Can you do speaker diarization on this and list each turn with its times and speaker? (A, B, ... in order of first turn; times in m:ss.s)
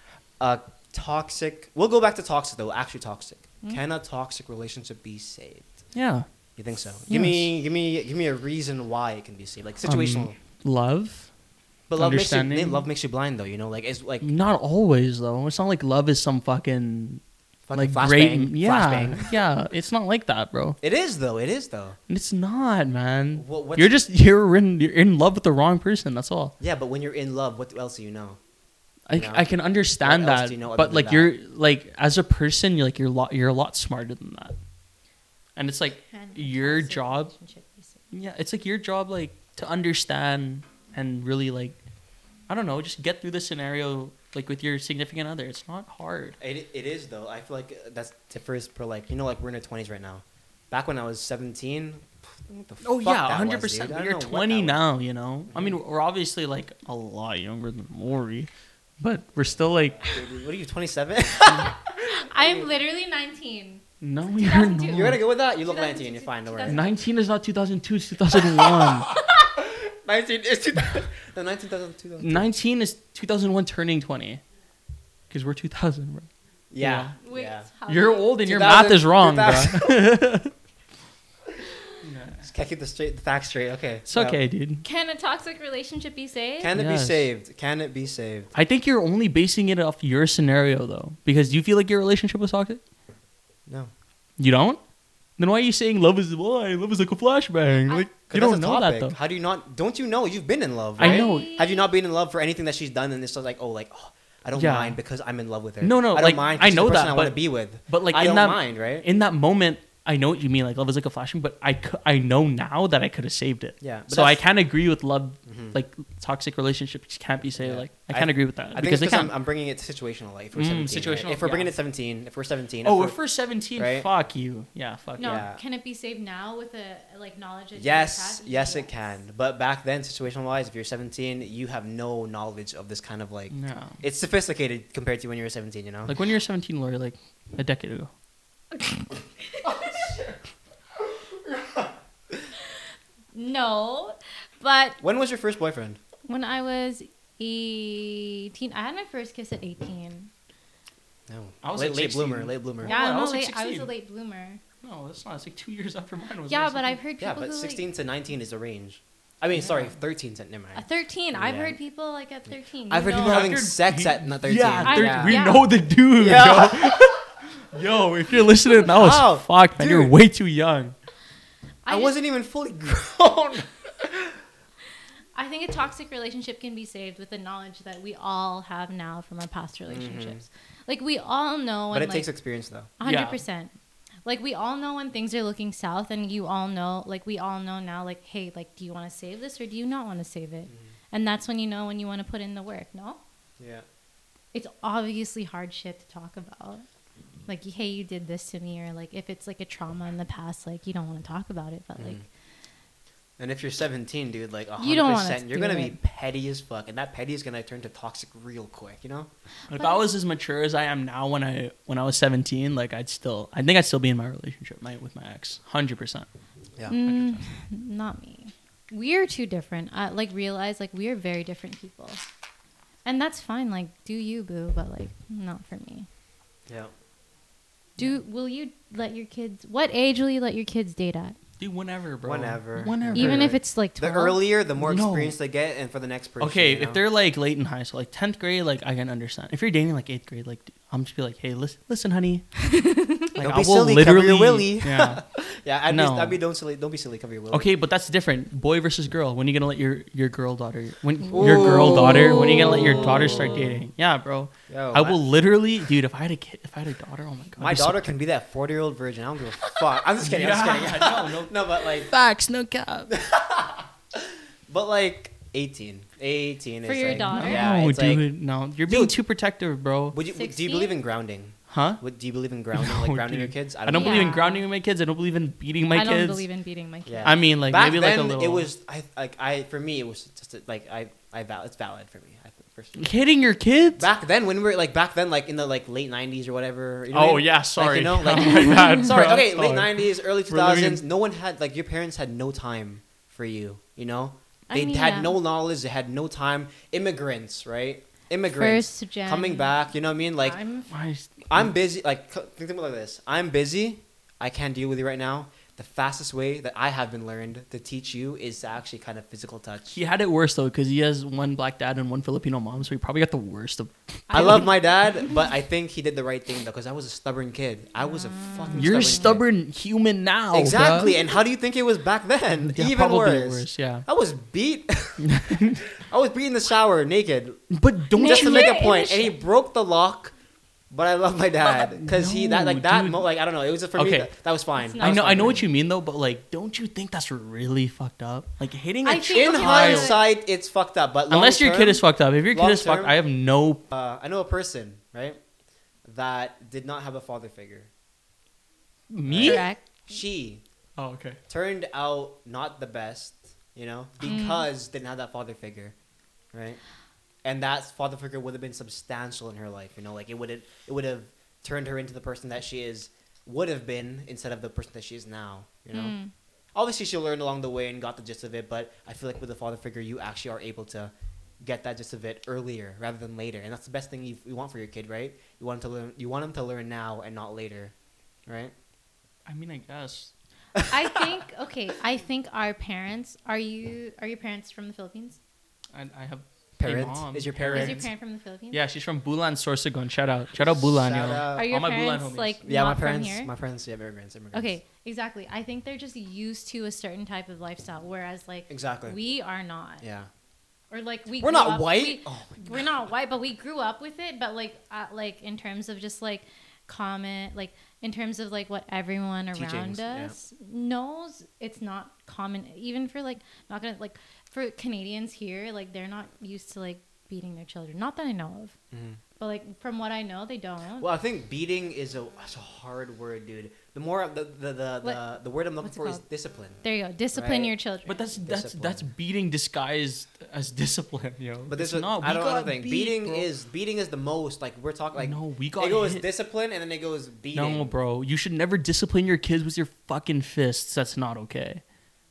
0:00.4-0:05.8 A
0:05.9-0:06.2 B
0:06.6-0:10.4 A
0:07.1-0:07.4 B
0:09.8-0:11.3 B
0:11.9-0:14.3 A
0:12.0-0:12.8 B
0:14.2-0:17.2 B
0:17.7-0:19.3 A
0:17.7-0:20.8 B
0:20.8-0:22.0 A
0:22.1-0:26.5 B
0:23.3-0:24.0 A
0:26.6-0:28.4 A
0:29.0-0:34.5 B
0:29.1-0:29.4 A
0:30.0-0:31.3 A
0:35.6-0:37.3 B
0:36.1-0:38.0 C
0:38.1-0:41.8 B
0:42.5-0:46.4 B
0:46.4-0:54.8 A
0:52.8-0:58.5 B
0:55.5-0:55.8 A
0:59.0-1:00.0 B
1:00.0-1:02.7 A
1:01.9-1:03.8 C
1:04.0-1:05.2 B
1:04.4-1:07.0 C
1:04.9-1:06.8 A
1:06.6-1:09.1 B
1:08.5-1:12.5 A
1:12.2-1:14.4 B
1:15.3-1:17.1 B
1:16.7-1:17.7 A
1:17.2-1:18.3 C
1:17.9-1:20.5 B
1:18.4-1:20.1 A
1:22.0-1:22.4 B
1:22.4-1:24.4 A
1:24.1-1:24.8 B
1:24.8-1:26.7 C
1:26.6-1:28.5 A
1:26.7-1:27.3 B
1:28.5-1:32.8 B
1:34.4-1:34.8 B
1:35.4-1:39.2 B
1:38.2-1:49.0 A
1:41.0-1:41.5 B
1:41.0-1:41.8 C
1:44.6-1:45.0 B
1:45.8-1:59.3 B
1:53.8-1:54.4 A
1:55.4-1:55.8 A
1:57.6-2:03.2 A
2:00.6-2:01.7 B
2:02.8-2:05.4 B
2:03.8-2:04.1 A
2:05.2-2:09.1 C
2:05.2-2:05.6 A
2:07.8-2:16.1 A
2:13.5-2:14.0 B
2:16.1-2:18.1 B
2:19.5-2:19.8 C
2:19.6-2:20.4 B
2:23.3-2:25.0 C
2:25.0-2:26.0 A
2:26.3-2:30.3 C
2:31.3-2:33.0 A
2:31.6-2:33.9 B
2:32.8-2:34.6 C
2:34.8-2:37.0 B
2:36.5-2:37.8 C
2:37.2-2:41.8 A
2:40.7-2:43.6 C
2:42.9-2:45.6 A
2:43.2-2:50.9 B
2:44.8-2:45.7 C
2:46.1-2:47.2 A
2:48.8-2:50.1 A
2:51.8-2:52.2 C
2:51.9-2:54.4 A
2:55.3-3:02.3 C
2:59.9-3:00.4 A
3:01.9-3:02.9 A
3:03.0-3:03.7 C
3:03.0-3:03.4 B
3:04.2-3:13.2 C
3:13.6-3:13.8 A
3:14.5-3:16.8 C
3:17.5-3:22.2 C
3:22.0-3:22.2 A
3:23.4-3:29.3 A
3:24.8-3:26.0 C
3:29.7-3:36.3 B
3:29.7-3:30.0 C
3:36.9-3:42.2 C
3:36.9-3:37.4 B
3:43.0-3:46.1 C
3:46.7-3:46.9 A
3:48.0-3:51.4 C
3:51.6-3:53.6 B
3:52.2-3:57.0 A
3:53.1-3:54.4 C
3:54.8-3:55.4 B
3:56.4-4:02.4 B
4:02.6-4:03.3 C
4:03.3-4:05.2 B
4:03.4-4:07.7 A
4:05.9-4:06.4 B
4:07.5-4:18.1 B
4:11.3-4:13.7 A
4:14.7-4:15.2 A
4:17.6-4:22.1 A
4:19.6-4:23.1 B
4:23.1-4:28.2 A
4:26.8-4:27.8 C
4:27.0-4:30.2 B
4:28.8-4:29.2 A
4:30.1-4:34.4 A
4:30.2-4:31.0 C
4:31.7-4:32.0 B
4:32.7-4:36.4 B
4:33.9-4:34.6 C
4:35.9-4:37.3 C
4:37.1-4:43.1 A
4:37.2-4:38.7 B
4:43.0-4:44.1 B
4:44.0-5:00.6 A
4:47.1-4:51.0 B
4:54.7-4:55.4 C
4:58.5-4:59.7 C
5:00.4-5:00.9 C
5:00.9-5:01.7 B
5:01.5-5:10.0 A
5:09.9-5:14.6 B
5:14.3-5:15.4 C
5:14.3-5:19.4 A
5:18.3-5:19.1 C
5:18.7-5:21.2 B
5:20.5-5:30.3 A
5:22.7-5:24.0 B
5:25.2-5:25.8 B
5:27.7-5:28.8 B
5:28.1-5:29.3 C
5:30.9-5:35.7 A
5:31.6-5:33.2 B
5:33.9-5:34.3 B
5:34.8-5:35.6 C
5:35.0-5:40.2 B
5:39.0-5:40.2 C
5:39.3-5:43.1 A
5:41.3-5:43.8 B
5:43.9-5:45.4 A
5:46.0-5:47.9 A
5:49.1-5:49.6 B
5:49.2-5:50.6 A
5:49.4-5:49.8 C
5:51.0-5:51.4 B
5:51.5-5:55.9 A
5:54.2-5:54.6 C
5:56.5-5:56.8 A
5:57.4-6:06.1 A
6:05.9-6:06.3 C
6:06.7-6:17.9 A
6:18.5-6:18.7 A
6:19.4-6:20.3 B
6:20.9-6:25.4 C
6:25.9-6:28.1 B
6:26.8-6:28.0 A
6:27.7-6:28.8 C
6:28.7-6:32.6 B
6:30.6-6:31.7 A
6:31.5-6:33.5 C
6:32.6-6:34.8 A
6:34.5-6:40.0 C
6:38.7-6:39.2 A
6:40.0-6:40.3 A
6:40.9-6:58.8 C
6:41.4-6:42.8 A
6:49.5-6:50.3 A
6:58.9-6:59.2 A
6:59.4-7:01.1 C
7:01.0-7:06.8 A
7:05.8-7:06.2 C
7:06.8-7:08.2 C
7:07.3-7:07.7 A
7:08.0-7:13.5 B
7:08.4-7:09.0 A
7:11.7-7:17.9 A
7:15.2-7:16.2 B
7:17.5-7:21.8 B